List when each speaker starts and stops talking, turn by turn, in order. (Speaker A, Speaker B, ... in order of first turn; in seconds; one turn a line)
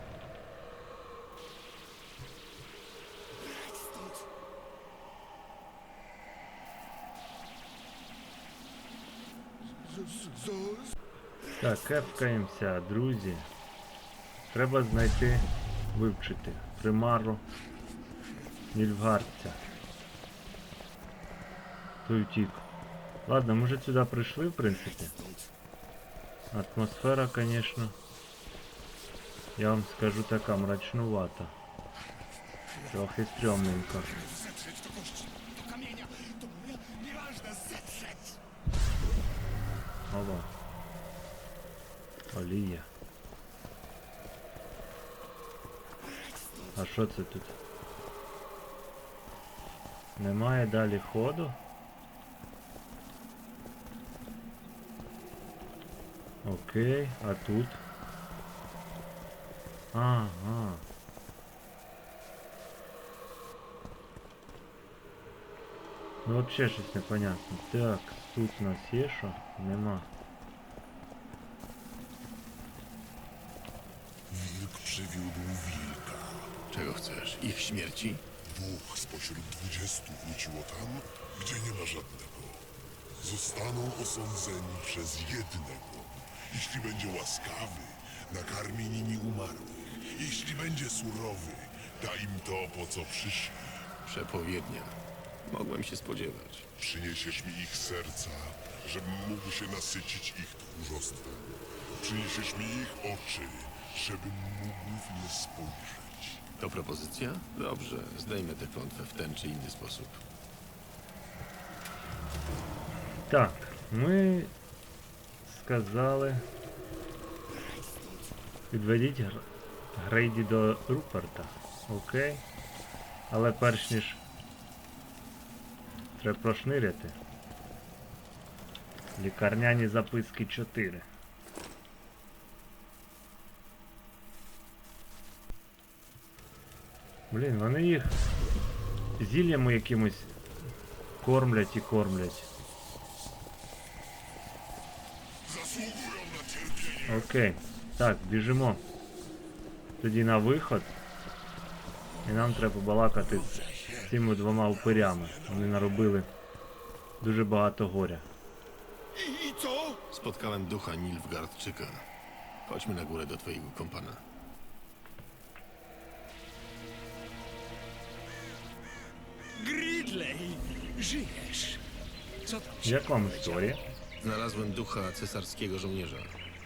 Speaker A: 9.7-10.9
Speaker B: 11.6-13.5
Speaker B: 14.5-17.4
Speaker B: 18.7-19.6
Speaker B: 22.1-22.6
Speaker B: 23.2-25.1
Speaker B: 26.5-28.0
Speaker B: 29.6-31.5
Speaker B: 32.9-34.2
Speaker C: 34.3-38.4
Speaker B: 40.1-40.5
Speaker B: 42.3-42.9
Speaker B: 46.8-47.5
Speaker B: 50.2-51.6
Speaker B: 56.4-57.8
Speaker B: 59.9-60.8
Speaker B: 66.2-70.1
Speaker D: 74.3-76.6
Speaker E: 76.7-78.2
Speaker D: 78.5-93.7
Speaker E: 94.0-96.7
Speaker D: 96.8-106.4
Speaker E: 106.6-110.2
Speaker B: 113.3-114.5
Speaker B: 115.5-116.5
Speaker B: 118.7-119.5
Speaker B: 120.0-122.4
Speaker B: 123.3-124.2
Speaker B: 126.2-127.2
Speaker B: 129.2-131.1
Speaker B: 137.3-138.2
Speaker B: 139.2-140.4
Speaker B: 141.2-142.5
Speaker D: 145.4-147.3
Speaker B: 147.1-148.8
Speaker B: 150.0-150.9
Speaker B: 152.2-156.3
Speaker A: 153.6-154.1
Speaker B: 157.2-158.2
Speaker A: 159.1-160.0
Speaker E: 160.1-162.0
Speaker E: 162.7-164.2
Speaker C: 169.6-171.8
Speaker C: 172.4-173.9
Speaker B: 172.8-173.8
Speaker E: 174.2-176.3